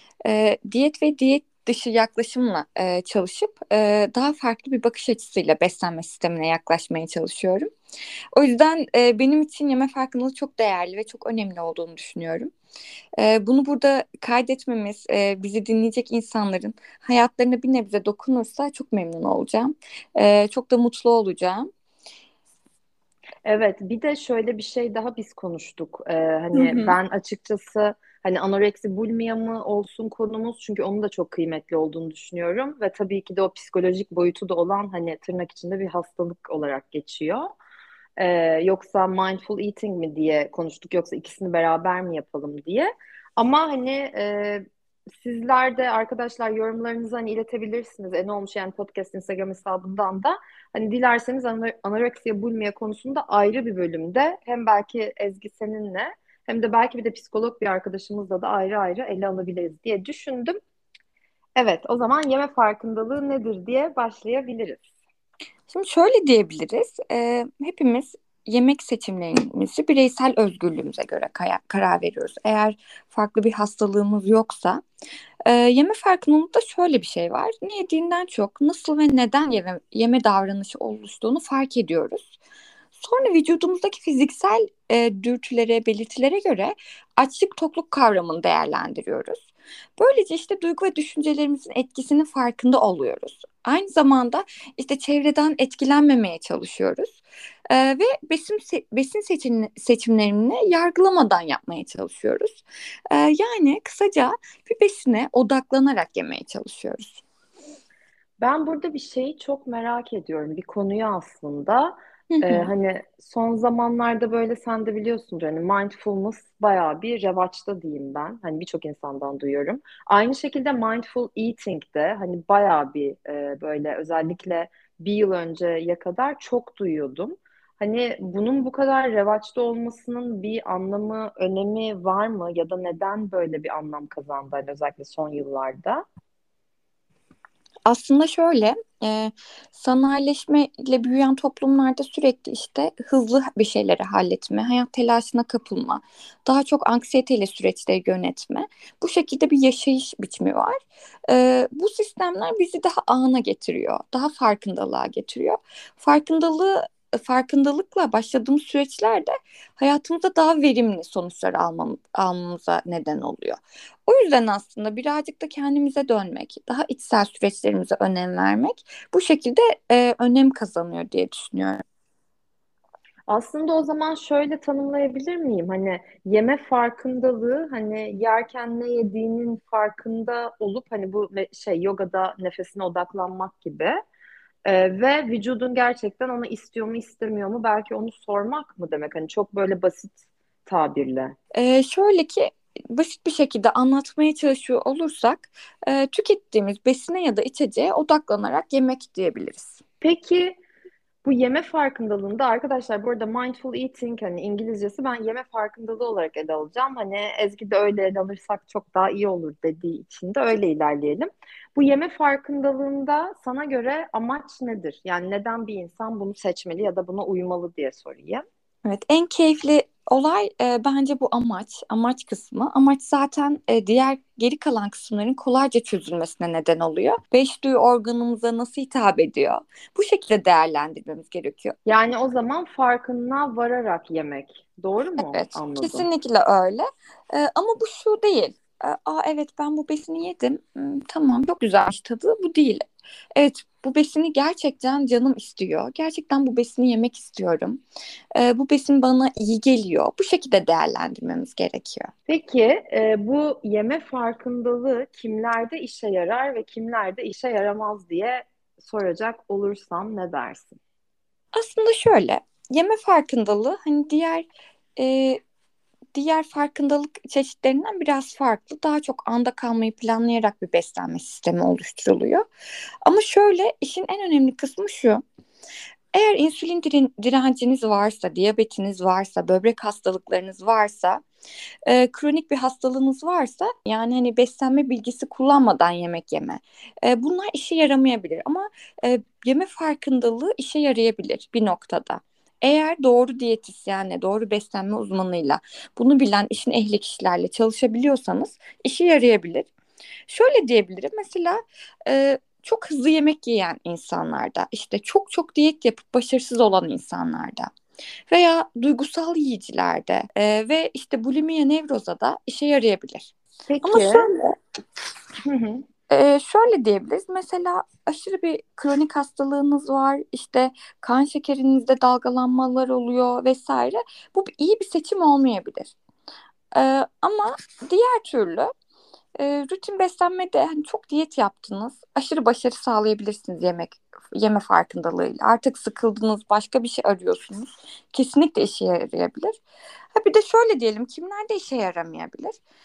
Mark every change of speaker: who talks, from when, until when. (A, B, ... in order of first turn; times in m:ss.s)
0:00.2-0:07.7 A
0:08.3-0:12.5 A
0:13.2-0:21.7 A
0:23.4-0:37.5 B
0:26.5-0:27.0 A
0:38.2-0:44.6 B
0:45.2-1:00.6 B
1:01.6-1:04.9 B
1:05.7-1:14.8 A
1:15.5-1:22.4 A
1:23.0-1:47.2 A
1:48.4-2:16.0 B
1:52.3-1:52.7 A
2:17.9-2:51.8 A
2:53.3-3:04.0 B
3:04.6-3:11.4 B
3:11.5-3:19.8 A
3:20.0-3:20.6 B
3:21.2-3:38.4 B
3:38.8-3:51.8 A
3:51.9-3:56.1 B
3:55.2-4:07.8 A
4:08.4-4:12.1 A
4:12.3-4:20.8 B
4:21.5-4:25.4 A
4:26.1-4:32.4 A
4:33.0-4:35.2 A
4:36.1-4:41.2 A
4:41.9-4:59.7 A
5:00.3-5:07.7 A
5:08.3-5:14.6 A
5:13.7-5:14.3 B
5:15.4-5:15.8 B
5:16.1-5:25.9 A
5:26.8-5:28.7 A
5:29.4-5:39.6 A
5:40.1-5:42.6 A